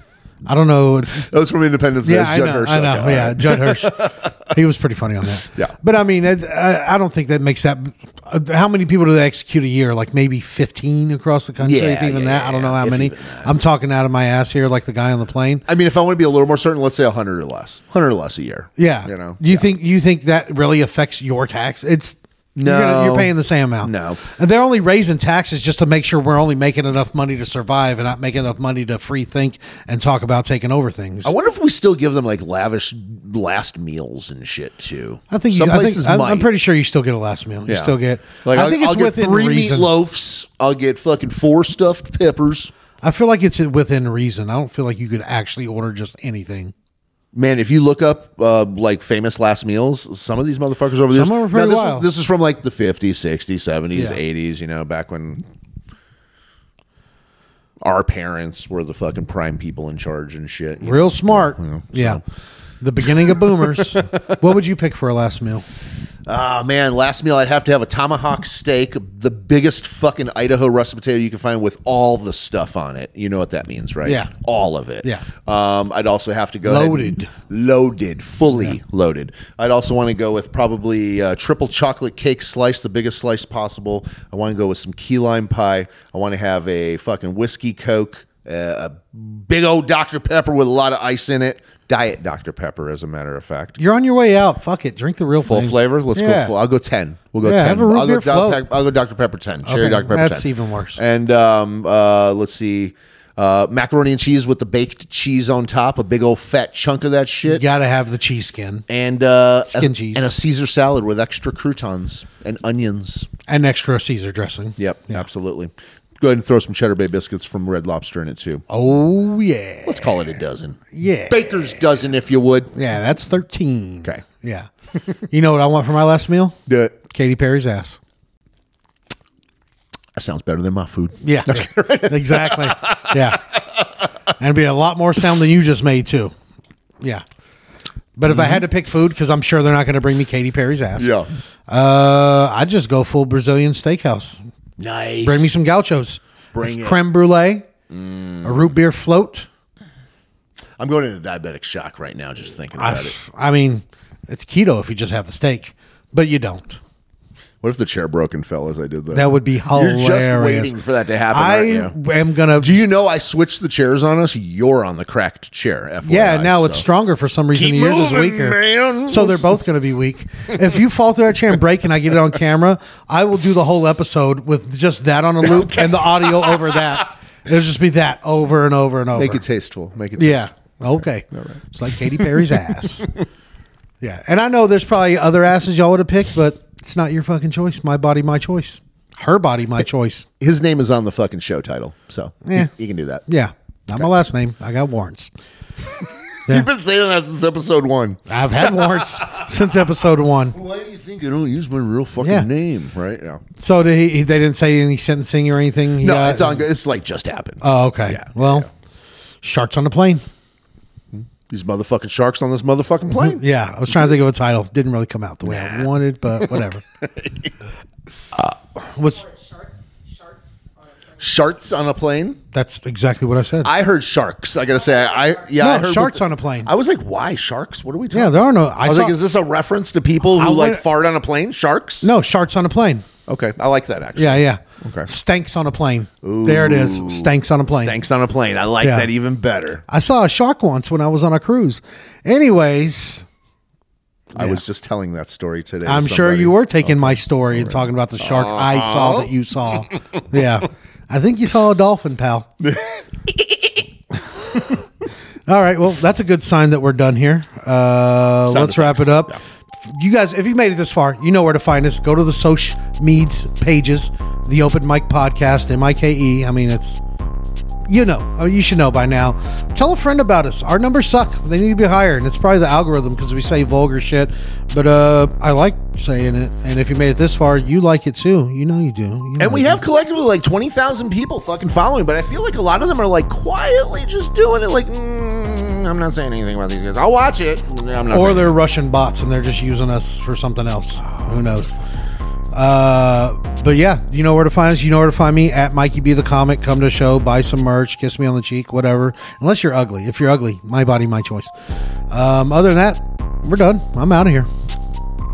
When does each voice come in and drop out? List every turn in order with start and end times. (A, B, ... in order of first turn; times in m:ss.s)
0:00.4-0:01.2 A
0:01.1-0:04.5 B
0:02.0-0:15.6 A
0:11.6-0:13.5 B
0:15.7-0:19.6 B
0:18.8-0:31.3 A
0:22.6-0:24.2 B
0:31.2-0:36.5 B
0:35.3-0:39.9 A
0:37.7-0:42.7 B
0:43.0-0:46.7 A
0:47.3-0:55.4 B
0:51.1-0:52.1 A
0:53.9-0:54.2 A
0:57.8-1:02.2 B
1:00.8-1:02.2 A
1:02.8-1:05.6 A
1:03.0-1:04.2 B
1:06.2-1:33.8 B
1:14.0-1:14.3 A
1:16.6-1:17.3 A
1:33.8-1:36.5 A
1:35.4-1:47.6 B
1:37.4-1:38.6 A
1:39.6-1:41.0 A
1:47.4-1:48.8 A
1:48.9-1:53.3 B
1:49.7-1:50.3 A
1:53.5-1:55.2 A
1:54.8-1:58.6 B
1:58.7-2:00.4 A
1:59.8-2:02.7 B
2:00.9-2:01.4 A
2:02.7-2:04.7 A
2:05.3-2:08.0 A
2:06.7-2:07.0 B
2:10.1-2:14.1 B
2:11.2-2:13.4 A
2:14.4-2:16.3 A
2:18.2-2:21.1 A
2:18.3-2:18.6 B
2:21.0-2:21.3 B
2:21.7-2:24.4 A
2:24.8-2:25.5 B
2:25.2-2:27.7 A
2:26.5-2:27.0 B
2:27.9-2:28.7 B
2:28.4-2:29.5 A
2:30.8-2:33.2 B
2:32.8-2:36.8 A
2:37.6-2:41.9 B
2:39.1-2:40.7 A
2:41.3-2:42.7 A
2:42.6-2:46.8 B
2:46.0-2:59.4 A
2:47.5-2:49.5 B
2:55.4-2:57.0 B
2:59.1-3:03.0 B
3:00.2-3:03.1 A
3:04.0-3:10.2 A
3:10.4-3:13.2 B
3:12.4-3:12.7 A
3:13.3-3:15.3 A
3:16.0-3:19.5 B
3:18.3-3:20.5 A
3:20.5-3:23.4 B
3:22.2-3:22.5 A
3:23.6-3:26.6 A
3:26.0-3:28.7 B
3:27.6-3:28.7 A
3:29.4-3:30.2 A
3:31.1-3:34.2 B
3:33.1-3:36.8 A
3:35.4-3:37.5 B
3:38.8-3:39.2 A
3:38.8-3:41.7 C
3:41.2-3:42.4 B
3:42.5-3:43.7 A
3:43.6-3:52.1 B
3:44.7-3:45.6 C
3:45.6-3:46.7 A
3:48.1-3:49.2 A
3:50.2-3:50.8 A
3:52.0-3:53.0 A
3:53.3-3:55.1 B
3:54.2-3:58.0 A
3:56.2-3:59.8 B
3:58.8-3:59.1 A
3:59.9-4:03.2 A
4:04.3-4:09.3 B
4:05.8-4:12.5 A
4:12.6-4:13.8 B
4:15.5-4:27.0 A
4:18.5-4:19.4 B
4:27.9-4:39.8 A
4:39.4-4:48.5 B
4:48.1-4:51.7 A
4:51.0-4:51.7 B
4:52.5-5:01.5 A
5:02.1-5:04.5 A